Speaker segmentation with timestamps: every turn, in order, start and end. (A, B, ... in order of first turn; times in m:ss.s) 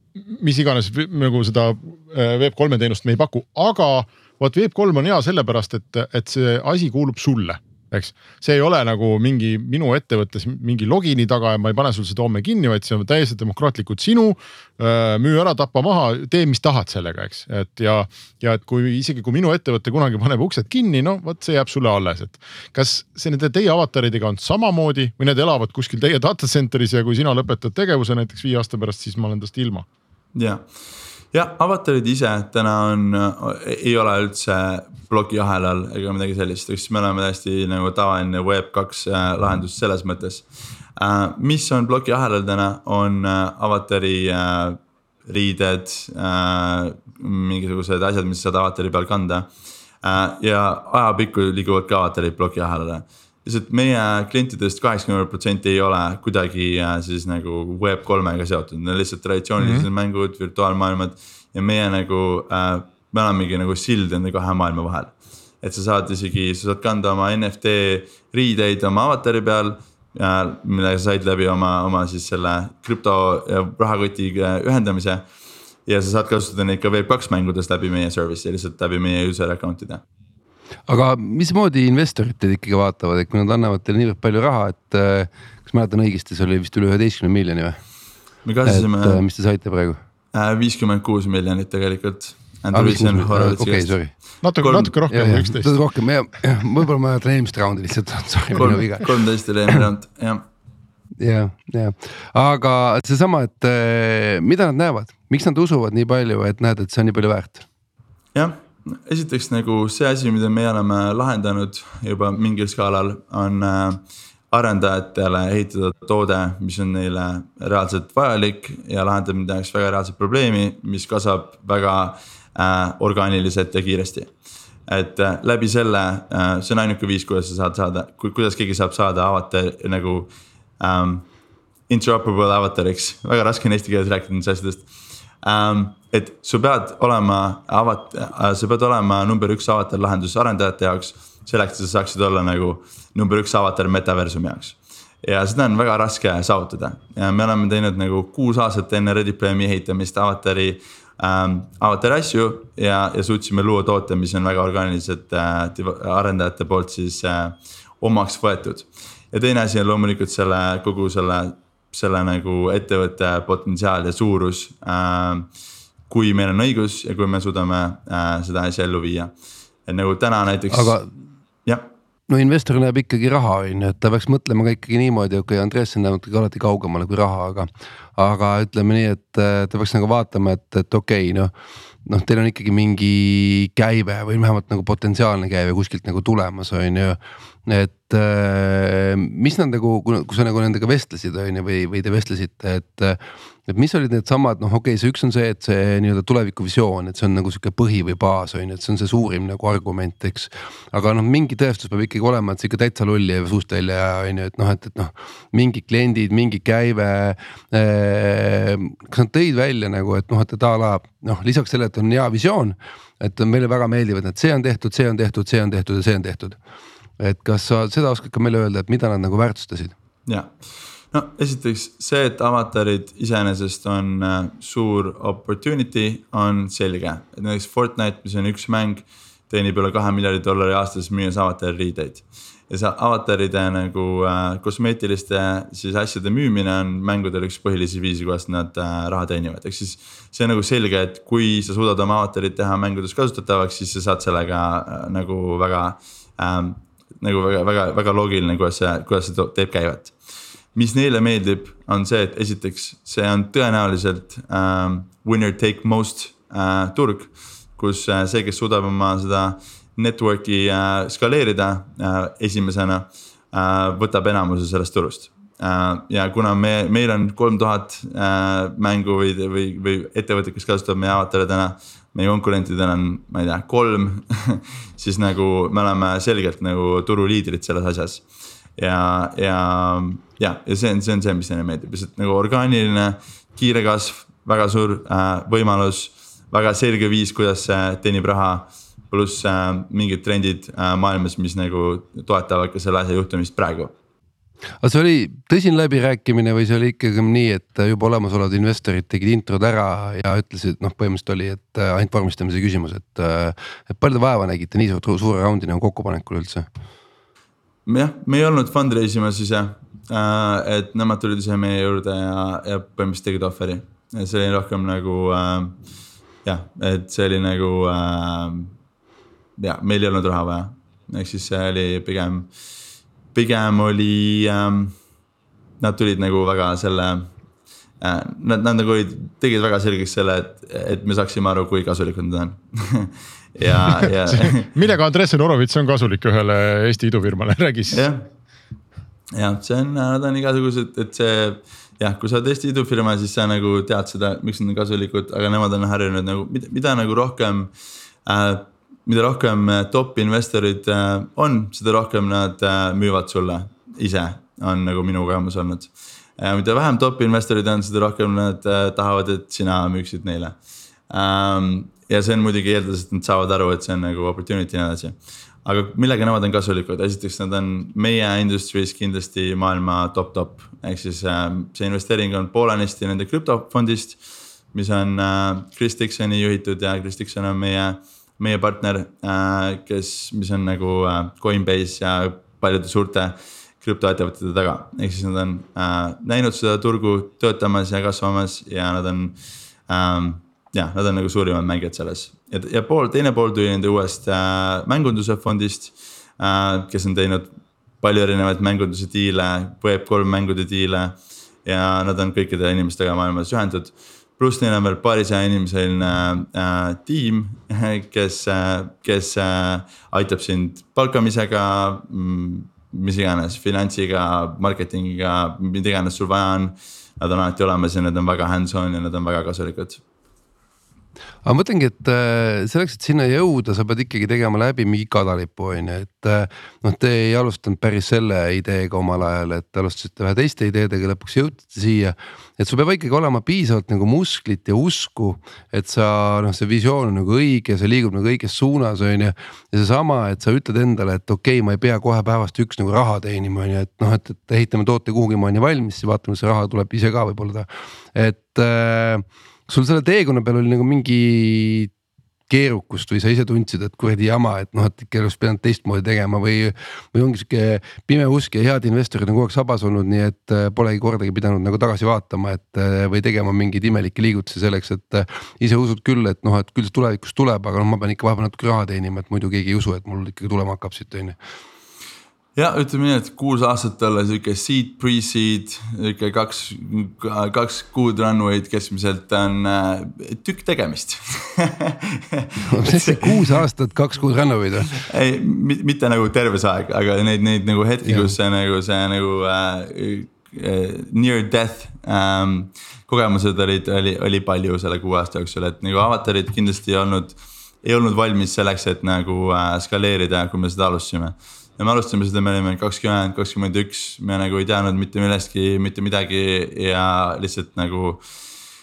0:00.2-0:29.9 A
0:30.4-0:30.6 B
0:31.3-0:40.5 B
0:41.0-0:49.5 B
0:50.0-1:15.2 B
0:59.6-0:59.9 A
1:15.9-1:20.0 B
1:20.9-1:27.8 C
1:28.5-1:29.2 B
1:28.6-1:30.0 C
1:30.3-1:35.0 B
1:32.7-1:34.1 C
1:34.4-1:35.8 A
1:35.1-1:39.1 C
1:38.5-1:40.4 B
1:41.2-1:47.6 C
1:48.3-2:04.3 B
2:04.9-2:10.3 B
2:10.8-2:11.3 B
2:11.9-2:14.9 B
2:15.4-2:45.5 B
2:46.1-2:49.3 B
2:49.9-2:51.0 B
2:50.7-2:51.1 C
2:52.3-3:01.5 C
3:02.0-3:36.6 C
3:37.2-3:40.0 C
3:40.3-3:40.5 B
3:41.1-4:10.1 B
4:10.8-4:38.2 B
4:38.8-4:53.9 B
4:54.8-5:06.7 C
5:07.9-5:15.8 B
5:16.4-5:18.7 B
5:19.6-5:22.5 B
5:23.3-5:25.0 B
5:25.8-5:27.3 B
5:28.0-5:34.7 B
5:34.0-5:38.1 A
5:37.9-5:38.3 B
5:39.3-5:47.7 B
5:48.3-6:00.6 B
6:01.1-6:14.2 B
6:14.7-6:29.4 B
6:29.9-7:00.0 B
7:01.4-7:31.9 C
7:32.5-7:51.4 C
7:52.6-8:03.5 B
8:02.6-8:05.0 C
8:05.0-8:28.2 B
8:08.0-8:08.3 C